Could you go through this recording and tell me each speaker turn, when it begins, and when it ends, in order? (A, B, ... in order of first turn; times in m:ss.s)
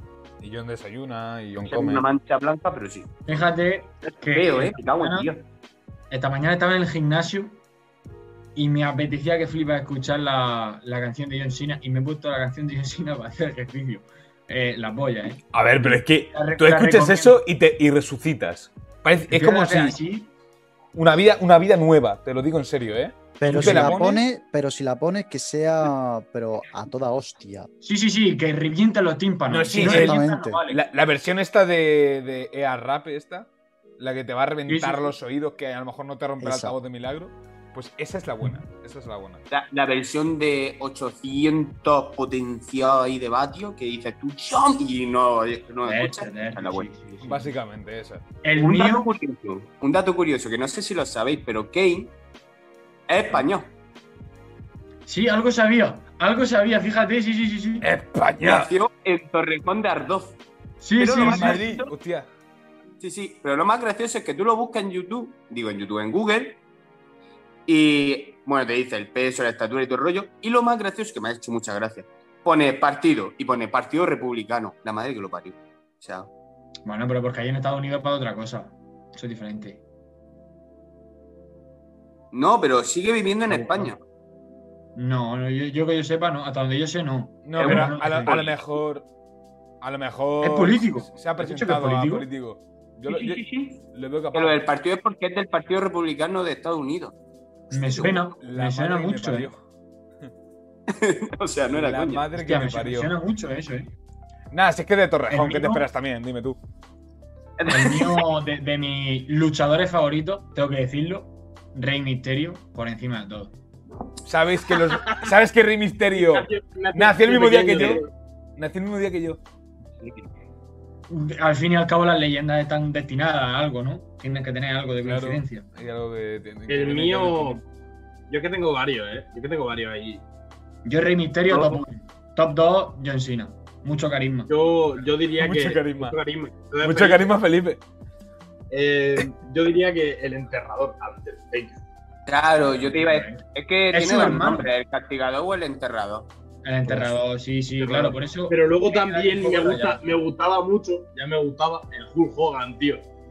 0:00.4-0:02.0 A
0:01.6-0:03.1 B
0:03.3-0:05.3 C
0:04.1-0:05.4 B
0:06.1-0:07.6 C
0:08.6-0:17.4 C
0:15.5-0:20.0 A
0:19.3-0:20.3 C
0:21.0-0:24.1 A
0:23.4-0:27.7 D
0:23.5-0:24.2 C
0:27.8-0:30.3 C
0:29.5-0:39.4 A
0:29.8-0:30.6 D
0:30.0-0:30.8 B
0:34.7-0:35.1 C
0:36.4-0:36.8 D
0:39.5-0:47.0 B
0:45.8-0:47.5 C
0:47.2-0:48.2 A
0:48.4-0:49.1 C
0:48.6-0:52.1 B
0:53.1-0:53.7 B
0:55.1-0:57.9 C
0:57.8-0:58.7 A
0:58.4-1:00.4 B
1:00.8-1:01.6 C
1:01.0-1:01.9 B
1:01.2-1:02.3 A
1:03.0-1:06.6 B
1:07.7-1:16.3 B
1:16.8-1:19.8 C
1:22.3-1:24.0 B
1:23.5-1:23.9 C
1:25.0-1:28.5 C
1:27.4-1:29.1 A
1:27.6-1:28.5 B
1:29.8-1:34.6 A
1:30.4-1:32.3 C
1:33.1-1:37.2 B
1:37.7-1:38.3 B
1:37.7-1:39.5 C
1:38.4-1:39.6 A
1:40.9-1:42.3 B
1:41.7-1:43.1 A
1:42.3-1:43.9 C
1:44.5-1:46.6 A
1:45.3-1:45.9 C
1:47.6-1:48.2 B
1:47.7-1:53.6 C
1:54.2-1:58.0 A
1:56.2-1:58.1 E
1:58.6-1:59.4 A
2:00.0-2:00.3 B
2:01.1-2:05.7 C
2:05.0-2:07.6 A
2:06.7-2:07.6 E
2:08.3-2:10.2 E
2:10.8-2:14.5 C
2:11.5-2:11.8 B
2:14.5-2:17.4 E
2:15.4-2:16.2 A
2:16.8-2:17.8 A
2:18.7-2:21.8 E
2:22.3-2:26.3 B
2:22.8-2:24.7 C
2:26.6-2:30.0 C
2:26.9-2:27.2 D
2:27.8-2:33.0 E